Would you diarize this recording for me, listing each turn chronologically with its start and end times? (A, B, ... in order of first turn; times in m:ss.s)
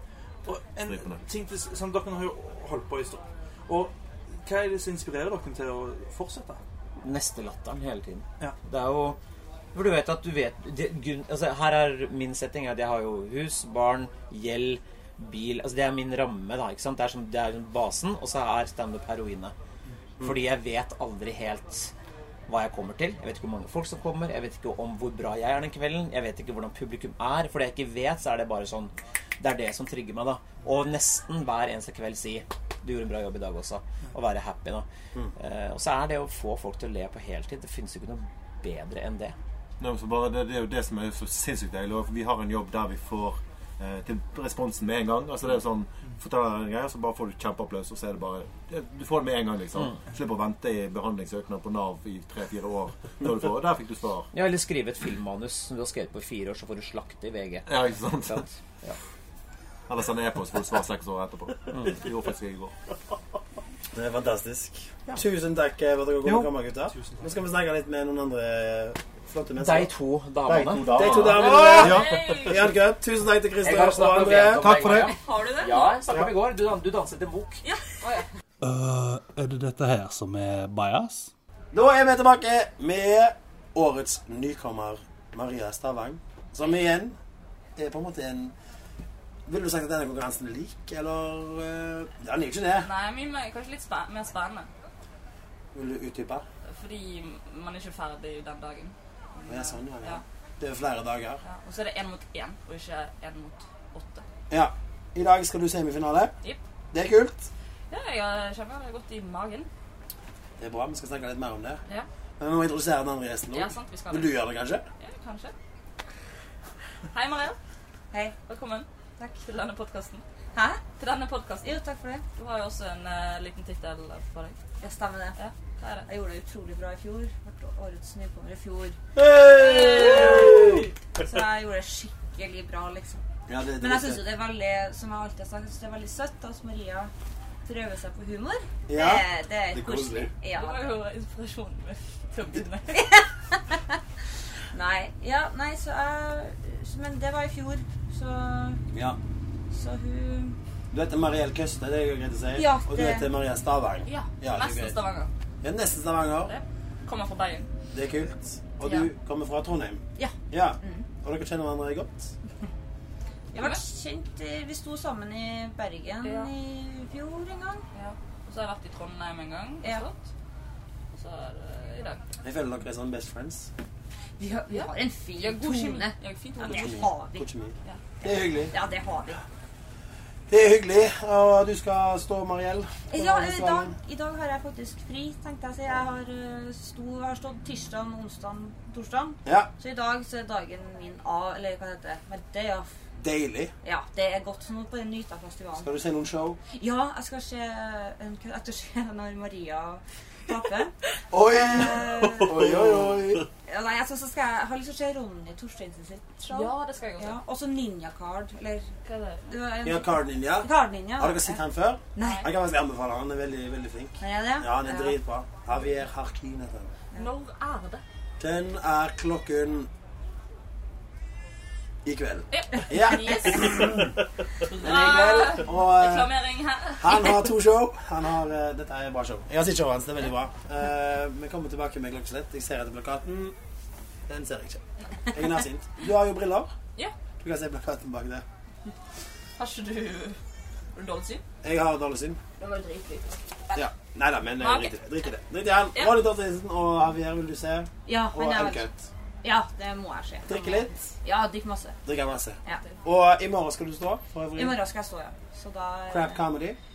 0:00.4-0:03.9 A
0:00.9-0:01.2 B
0:04.4-0:06.6 A
0:07.0-0:09.2 C
0:09.7-0:19.5 C
0:20.2-0:21.9 C
0:22.5-0:39.4 C
0:39.8-0:54.3 B
0:54.3-0:57.7 C
0:57.7-0:58.4 B
0:58.2-0:59.0 C
0:59.9-1:02.7 B
1:03.9-1:09.9 D
1:06.2-1:06.5 C
1:06.9-1:07.3 A
1:09.6-1:11.9 C
1:10.5-1:14.8 D
1:10.6-1:12.2 B
1:11.5-1:12.7 E
1:13.6-1:17.6 C
1:14.5-1:15.1 B
1:14.8-1:16.0 E
1:17.6-1:18.2 E
1:18.6-1:21.3 F
1:21.7-1:27.2 D
1:27.8-1:28.5 D
1:29.5-1:32.9 D
1:32.8-1:34.7 E
1:35.7-1:36.4 D
1:36.7-1:40.2 E
1:39.5-1:41.4 D
1:41.4-1:44.2 E
1:44.5-1:46.3 D
1:46.9-1:47.5 D
1:47.9-1:49.7 E
1:50.6-1:51.8 D
1:52.4-1:54.8 D
1:53.5-1:54.4 E
1:55.0-1:55.5 E
1:57.1-1:57.6 E
1:58.5-1:58.9 E
1:59.4-2:00.2 E
2:00.5-2:00.9 G
2:00.9-2:01.7 E
2:01.6-2:02.2 G
2:02.4-2:04.6 E
2:04.8-2:05.4 G
2:05.4-2:06.1 E
2:06.1-2:09.0 G
2:09.2-2:10.8 D
2:09.5-2:13.2 G
2:09.6-2:10.6 E
2:13.5-2:14.2 D
2:13.8-2:17.1 G
2:17.6-2:20.9 G
2:18.9-2:20.3 D
2:20.5-2:23.1 E
2:22.9-2:23.8 G
2:24.7-2:28.8 G
2:28.9-2:29.2 D
2:29.7-2:30.6 G
2:30.9-2:35.0 D
2:32.6-2:33.3 G
2:34.0-2:35.3 E
2:35.6-2:36.5 D
2:36.4-2:37.7 E
2:37.9-2:42.3 D
2:40.2-2:41.0 G
2:43.5-2:47.9 G
2:43.5-2:43.8 E
2:46.2-2:46.5 E
2:47.9-2:50.2 E
2:51.1-2:52.2 E
2:52.4-2:53.7 D
2:54.4-2:57.5 G
2:54.7-2:57.1 E
2:56.7-2:58.7 D
2:58.3-2:59.4 G
3:00.5-3:03.9 D
3:03.1-3:12.9 G
3:09.4-3:09.7 D
3:13.2-3:13.7 D
3:13.8-3:15.9 G
3:15.8-3:16.6 D
3:16.7-3:20.9 G
3:21.3-3:23.5 D
3:21.4-3:22.7 G
3:22.7-3:23.2 B
3:23.7-3:28.9 G
3:26.5-3:27.4 E
3:29.0-3:29.4 E
3:29.5-3:31.6 G
3:29.8-3:36.9 D
3:32.2-3:32.4 G
3:32.2-3:32.4 E
3:34.2-3:35.2 G
3:37.2-3:38.0 E
3:38.4-3:39.9 D
3:42.0-3:44.2 D
3:42.5-3:44.0 E
3:44.7-3:47.5 E
3:44.7-3:46.3 D
3:47.0-3:53.6 D
3:54.3-3:56.7 D
3:57.4-3:58.4 D
3:59.6-4:00.4 E
4:00.9-4:01.4 E
4:01.6-4:02.4 D
4:02.6-4:03.8 E
4:03.8-4:08.9 D
4:04.6-4:05.0 E
4:05.9-4:06.2 E
4:08.1-4:08.9 G
4:09.4-4:12.0 G
4:10.5-4:10.9 D
4:12.1-4:14.8 D
4:14.6-4:16.4 G
4:16.1-4:16.8 D